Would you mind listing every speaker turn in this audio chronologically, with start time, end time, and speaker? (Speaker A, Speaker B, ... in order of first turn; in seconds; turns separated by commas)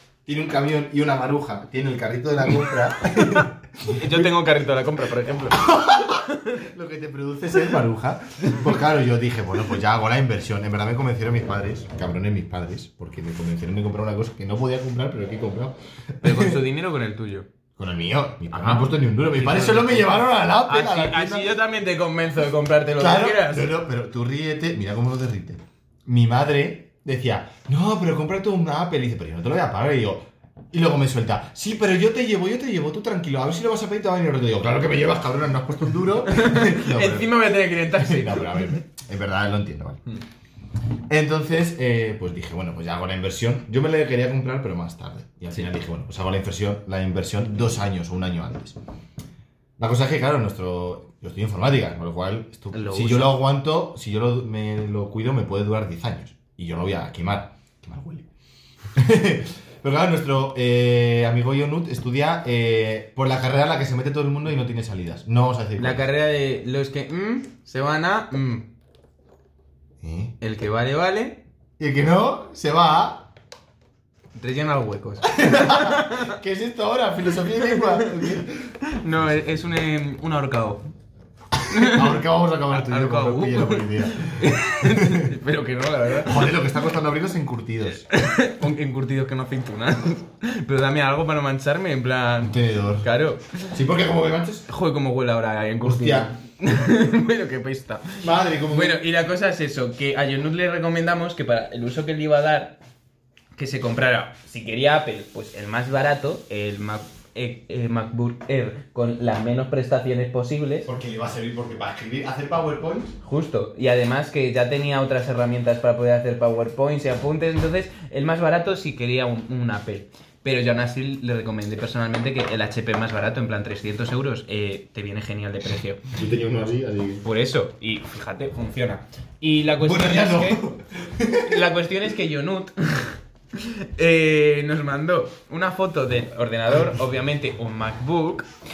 Speaker A: 0.2-4.3, Speaker B: 3.8-6.6, Speaker A: 5.5-16.6, Speaker B: 16.2-17.5, Speaker A: 17.8-21.5, Speaker B: 18.5-23.7, Speaker A: 23.0-40.0, Speaker B: 36.2-38.8, Speaker A: 41.1-48.8, Speaker A: 49.8-58.3, Speaker B: 52.7-53.4, Speaker A: 58.9-66.1, Speaker B: 65.8-68.7, Speaker A: 70.0-70.3, Speaker B: 70.4-71.4, Speaker A: 71.8-73.3, Speaker B: 74.3-76.3, Speaker A: 75.3-78.7, Speaker B: 78.9-80.8, Speaker A: 81.7-85.3, Speaker B: 81.7-86.5, Speaker A: 86.2-88.0, Speaker B: 88.0-93.7, Speaker A: 92.4-93.1, Speaker A: 93.7-94.7, Speaker B: 94.7-102.8, Speaker A: 95.8-96.3, Speaker A: 98.2-99.0, Speaker B: 103.5-110.9, Speaker A: 110.8-113.2, Speaker B: 113.2-126.1, Speaker A: 126.1-127.2, Speaker B: 127.2-130.6, Speaker A: 129.8-131.6, Speaker B: 131.4-138.5, Speaker A: 136.7-137.0